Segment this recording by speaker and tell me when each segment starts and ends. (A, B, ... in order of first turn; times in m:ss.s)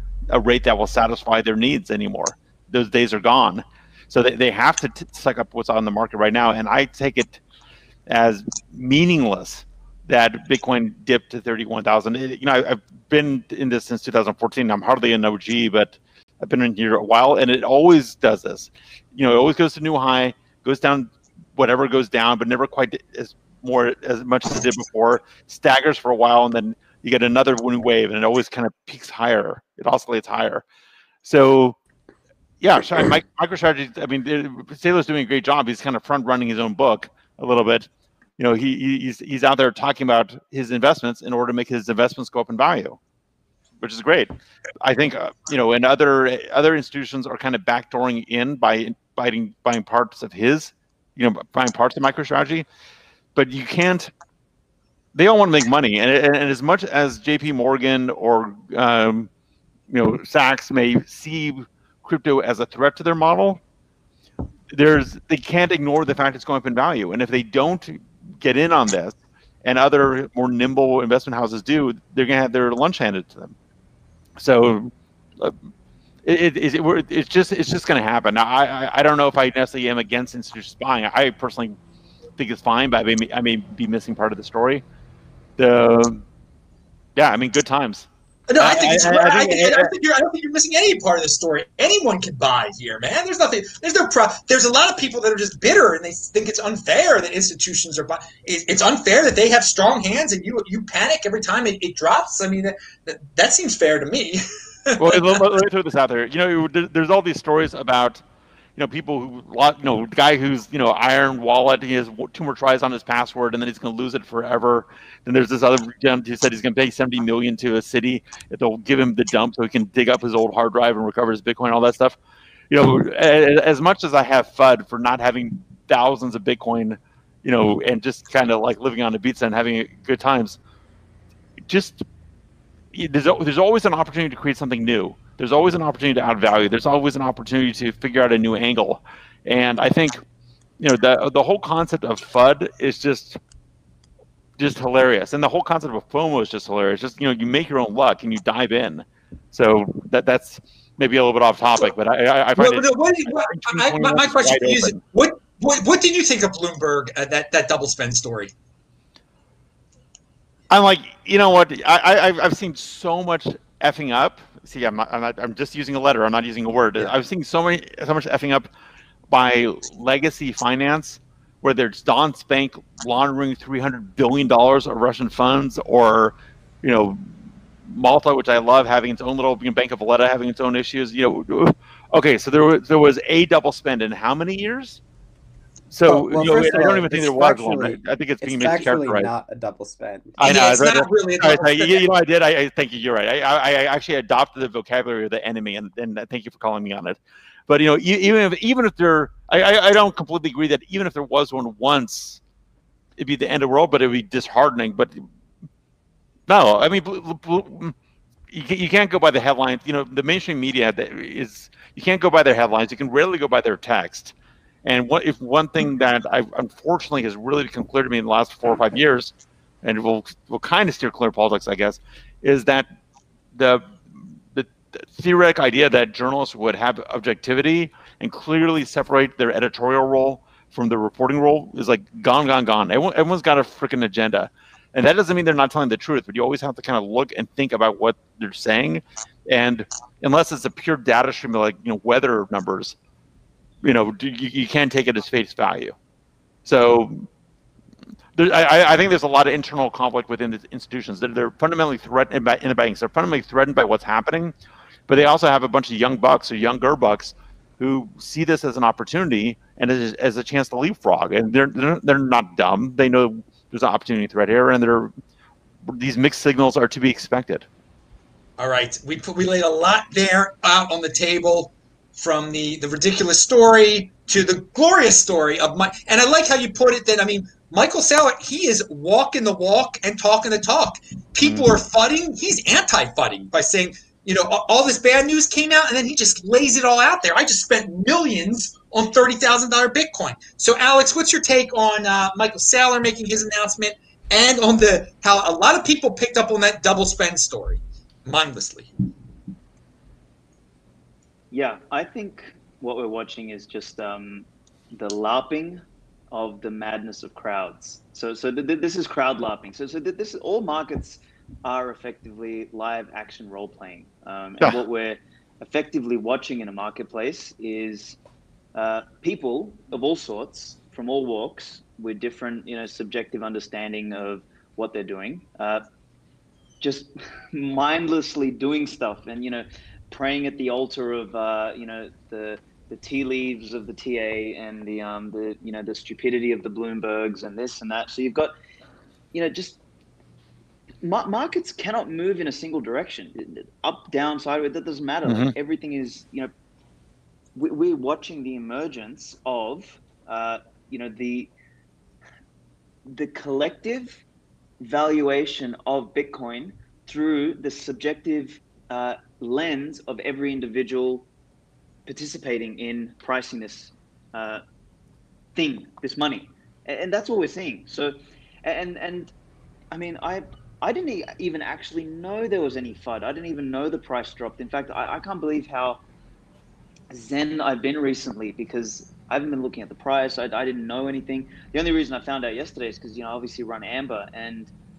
0:00.3-0:07.4 A
0:08.1-0:30.6 A
0:31.2-0:31.8 A
0:32.6-0:37.9 A
0:38.4-0:43.0 A
0:43.8-0:44.3 A
0:44.8-0:52.7 A
0:53.4-0:54.1 A
0:55.1-0:59.3 A
0:59.9-1:03.6 A
1:04.7-1:13.6 A
1:14.4-1:15.6 A
1:16.2-1:21.8 A
1:22.4-1:24.8 A
1:25.6-1:26.2 A
1:27.2-1:28.1 A
1:28.5-1:45.4 B
1:28.6-1:29.9 A
1:45.0-1:48.2 A
1:48.8-2:02.2 A
2:02.7-2:10.6 A
2:11.7-2:12.0 A
2:12.9-2:20.2 A
2:20.8-2:23.4 A
2:24.6-2:35.0 A
2:32.6-2:38.5 B
2:40.7-2:48.7 A
2:49.3-2:57.3 A
2:57.8-3:05.0 A
3:05.9-3:09.3 A
3:06.1-3:10.4 C
3:10.4-3:22.4 A
3:10.4-3:12.0 B
3:23.2-3:25.2 A
3:26.5-3:28.0 A
3:28.5-3:42.9 A
3:43.6-4:03.0 A
4:03.8-4:06.0 A
4:06.6-4:07.3 A
4:08.4-4:14.5 A
4:15.1-4:25.1 A
4:25.9-4:27.7 A
4:28.6-4:58.9 B
4:41.4-4:41.7 A
5:01.5-5:18.2 D
5:18.8-5:25.8 D
5:26.8-5:38.5 D
5:39.3-5:39.8 D
5:41.0-5:46.5 D
5:45.3-5:45.5 A
5:47.6-5:51.5 D
5:53.1-5:54.2 D
5:54.8-6:01.3 D
6:02.1-6:04.6 D
6:05.6-6:09.3 D
6:09.9-6:16.0 D
6:17.1-6:24.7 D